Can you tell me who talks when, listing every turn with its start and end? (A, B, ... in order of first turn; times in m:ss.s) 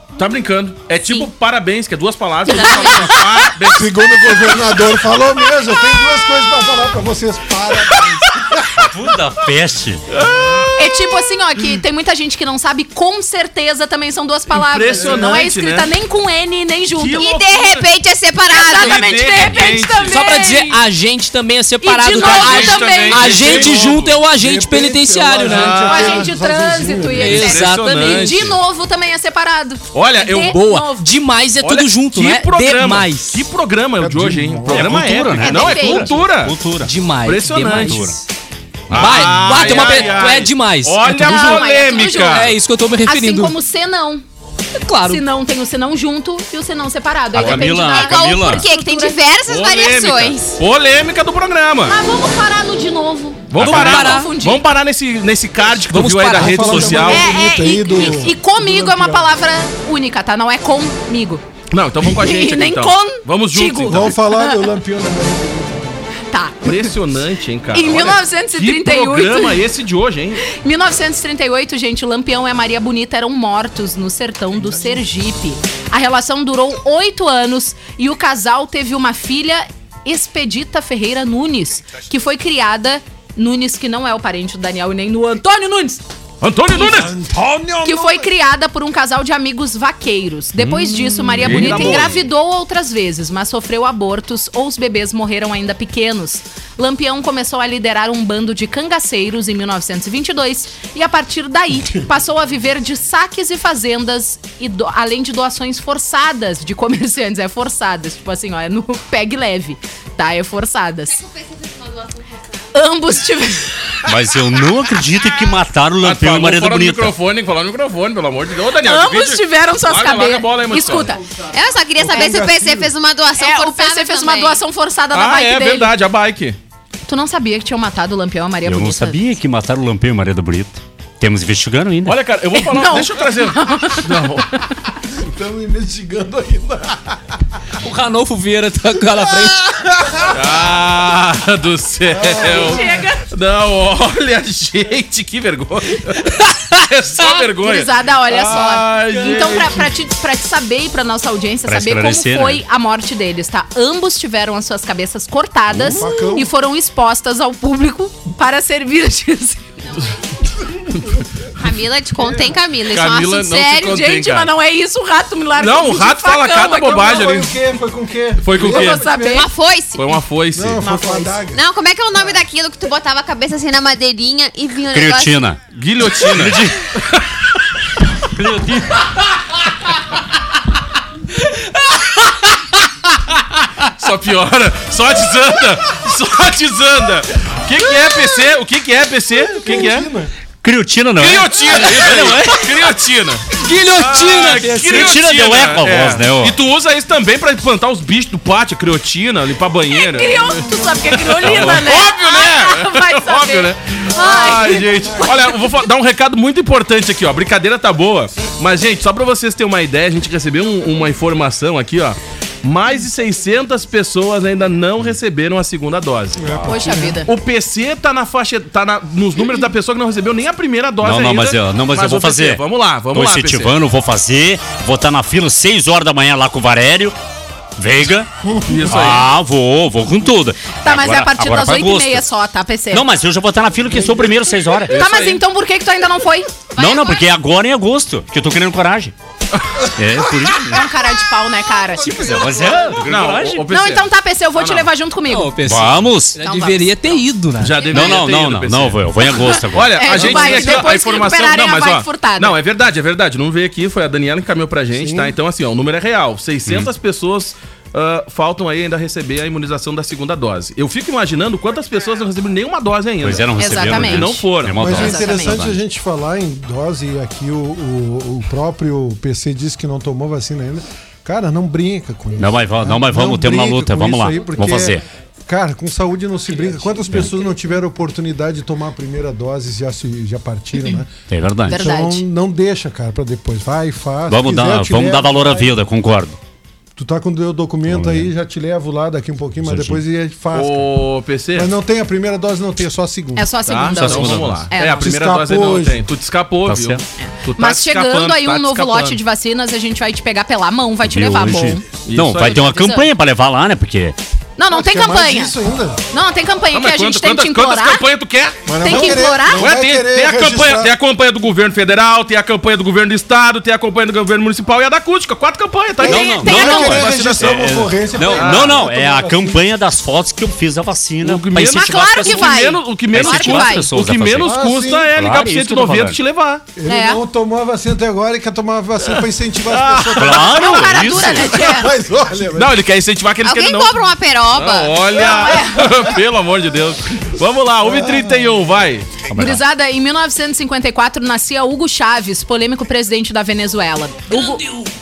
0:00.2-0:04.4 A
0:02.5-0:03.2 B
0:02.5-0:03.2 C
0:03.6-0:08.9 D
0:08.8-0:10.0 E
0:10.1-0:11.0 A
0:10.2-0:10.7 D
0:10.8-0:17.4 C
0:14.5-0:15.9 A
0:15.0-0:15.4 D
0:17.0-0:17.9 A
0:17.2-0:19.4 B
0:18.5-0:20.8 C
0:18.7-0:20.2 A
0:20.0-0:25.8 F
0:21.8-0:23.6 C
0:22.1-0:24.2 A
0:24.3-0:27.4 D
0:25.4-0:26.3 A
0:25.8-0:31.1 C
0:27.1-0:28.4 F
0:27.2-0:28.6 A
0:29.9-0:30.6 A
0:30.4-0:33.4 F
0:31.6-0:36.6 A
0:34.0-0:35.1 D
0:34.7-0:36.9 E
0:35.4-0:36.1 C
0:36.8-0:38.2 F
0:37.2-0:38.0 A
0:37.7-0:38.2 E
0:38.9-0:42.5 A
0:38.9-0:43.6 F
0:38.9-0:39.2 E
0:41.2-0:44.2 C
0:44.8-0:45.2 F
0:45.0-0:49.2 C
0:47.3-0:48.6 E
0:47.4-0:47.7 A
0:47.8-0:50.6 B
0:49.4-0:52.0 A
0:51.9-0:54.6 C
0:53.5-0:57.3 A
0:53.6-0:54.1 E
0:53.6-0:54.3 F
0:55.8-0:57.1 F
0:56.3-0:59.3 D
0:57.0-1:01.4 C
1:01.7-1:04.1 A
1:02.0-1:04.6 C
1:03.9-1:06.1 D
1:06.3-1:06.9 C
1:06.6-1:10.4 A
1:07.7-1:09.6 C
1:10.4-1:26.0 C
1:26.4-1:27.2 A
1:26.7-1:28.3 D
1:27.8-1:51.2 C
1:30.6-1:30.9 E
1:30.7-1:32.1 D
1:31.4-1:32.3 A
1:51.1-1:52.7 B
1:52.7-1:54.0 C
1:54.0-1:57.1 E
1:56.0-2:01.1 A
1:58.8-2:01.2 C
2:01.5-2:04.6 B
2:01.9-2:02.9 D
2:02.1-2:02.4 C
2:03.4-2:05.9 C
2:05.1-2:06.6 A
2:07.1-2:09.2 C
2:08.6-2:12.2 E
2:12.0-2:14.5 A
2:12.6-2:14.6 C
2:15.1-2:17.4 D
2:17.8-2:20.0 F
2:20.2-2:29.9 A
2:22.1-2:23.0 D
2:22.4-2:23.2 C
2:27.2-2:39.7 C
2:31.6-2:32.6 E
2:35.7-2:36.0 E
2:35.7-2:36.5 D
2:40.9-2:41.2 A
2:41.5-2:43.7 B
2:42.2-2:42.5 D
2:42.9-2:44.5 A
2:43.4-2:47.2 C
2:45.6-2:47.5 A
2:46.7-2:49.5 D
2:48.4-2:49.0 A
2:48.6-2:49.5 C
2:49.2-2:50.2 B
2:49.9-2:50.8 A
2:50.5-2:51.6 D
2:50.8-2:51.1 F
2:51.4-2:55.5 B
2:54.9-2:55.6 E
2:55.7-2:57.4 A
2:56.2-2:56.9 E
2:58.3-2:59.1 E
3:04.0-3:10.1 A
3:09.3-3:10.3 D
3:10.6-3:12.4 E
3:11.2-3:20.6 A
3:13.5-3:15.0 F
3:14.8-3:16.5 E
3:19.9-3:25.7 C
3:21.2-3:36.6 A
3:24.1-3:25.4 D
3:36.3-3:37.2 D
3:36.6-3:37.3 C
3:37.2-3:43.7 A
3:41.0-3:47.2 E
3:47.8-3:48.3 E
3:48.6-3:48.9 D
3:48.6-3:49.3 A
3:48.9-3:52.3 E
3:50.8-3:53.0 C
3:52.9-3:54.9 E
3:54.9-3:55.4 A
3:54.9-3:56.5 C
3:56.8-3:57.2 B
3:56.8-3:59.1 E
3:59.9-4:00.9 E
4:00.6-4:02.5 C
4:02.2-4:03.5 E
4:03.0-4:03.6 F
4:03.0-4:04.9 A
4:03.7-4:05.6 C
4:05.3-4:07.9 F
4:05.6-4:06.4 E
4:06.4-4:07.2 C
4:07.6-4:24.9 A
4:07.8-4:08.2 C
4:07.8-4:10.8 E
4:09.5-4:12.6 C
4:14.9-4:15.4 D
4:23.2-4:25.8 E
4:23.6-4:25.6 C
4:24.7-4:41.1 D
4:32.4-4:35.0 E
4:41.3-4:41.9 E
4:41.7-4:42.2 C
4:41.7-4:45.8 D
4:44.3-4:46.4 E
4:47.0-4:50.9 D
4:47.9-4:48.3 E
4:49.6-4:50.0 E
4:50.5-4:51.7 A
4:51.5-4:53.6 D
4:53.4-4:55.1 C
4:53.7-4:59.2 A
4:54.0-4:54.7 E
4:54.8-4:56.0 D
4:56.6-4:57.0 E
4:57.2-5:01.8 C
5:01.0-5:04.2 E
5:02.0-5:02.7 A
5:02.4-5:03.1 C
5:04.6-5:05.6 C
5:04.7-5:06.0 D
5:06.1-5:08.1 C
5:06.7-5:18.8 A
5:08.6-5:10.9 D
5:08.8-5:09.7 C
5:16.0-5:19.6 D
5:16.0-5:24.6 E
5:16.0-5:17.0 C
5:21.2-5:26.6 A
5:21.6-5:23.9 C
5:24.4-5:25.2 D
5:25.1-5:26.2 E
5:26.8-5:32.8 D
5:26.9-5:27.2 C
5:29.0-5:31.6 A
5:30.2-5:31.4 E
5:30.4-5:31.9 C
5:32.5-5:39.3 A
5:33.4-5:35.2 B
5:35.2-5:36.0 C
5:37.8-5:38.6 D
5:39.3-5:44.7 C
5:44.3-5:44.9 F